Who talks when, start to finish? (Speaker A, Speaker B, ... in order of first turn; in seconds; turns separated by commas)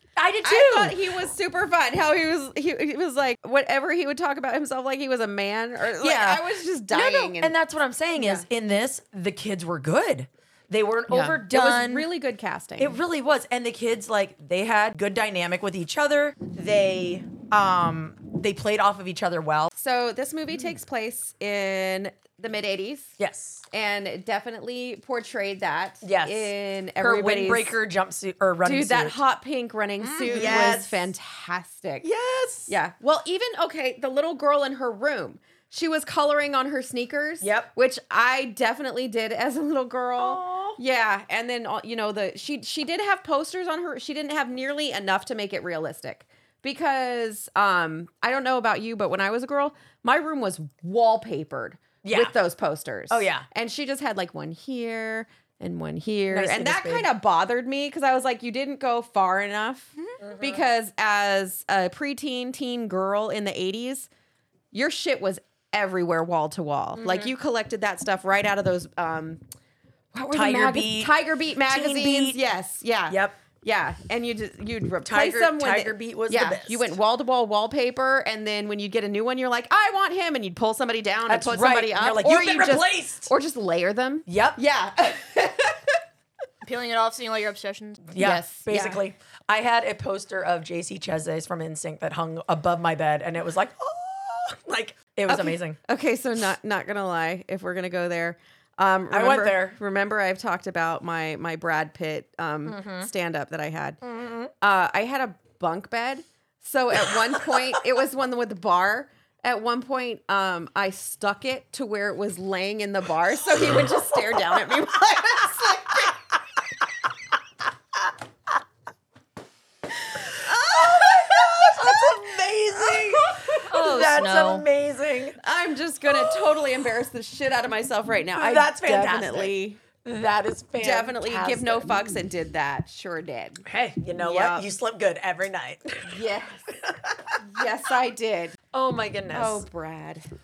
Speaker A: 0.1-1.1, Speaker B: 0.4-7.5, Speaker A: 6.0-12.1, Speaker B: 8.2-8.4, Speaker B: 11.1-13.0, Speaker A: 12.8-19.7, Speaker B: 19.7-23.1, Speaker A: 23.2-23.6, Speaker B: 23.7-27.8, Speaker A: 26.0-29.2, Speaker B: 28.6-32.1, Speaker A: 30.0-31.1, Speaker A: 32.0-32.7, Speaker B: 32.7-64.1, Speaker A: 37.4-37.7, Speaker A: 40.2-40.8, Speaker A: 52.0-52.3, Speaker A: 53.1-53.5, Speaker A: 56.3-57.1, Speaker A: 60.2-60.6, Speaker B: 64.7-69.4, Speaker B: 70.1-85.9, Speaker A: 70.3-72.4, Speaker A: 73.1-73.4, Speaker A: 75.0-77.0, Speaker A: 81.3-83.3, Speaker A: 84.3-84.6, Speaker C: 86.6-88.0, Speaker A: 88.1-95.8, Speaker B: 88.2-89.0, Speaker B: 95.3-104.0, Speaker A: 99.1-99.8, Speaker A: 102.7-103.1, Speaker A: 104.0-104.5, Speaker B: 104.6-116.1, Speaker B: 120.2-122.2, Speaker A: 120.5-125.4, Speaker B: 122.8-123.4, Speaker C: 123.7-124.6, Speaker B: 125.4-129.8, Speaker A: 126.1-126.6, Speaker A: 128.3-132.1, Speaker B: 130.8-133.6, Speaker A: 133.6-136.2, Speaker B: 134.2-134.6, Speaker B: 136.1-136.8, Speaker A: 136.8-137.4, Speaker B: 137.4-138.6, Speaker A: 138.7-139.6, Speaker B: 139.3-140.2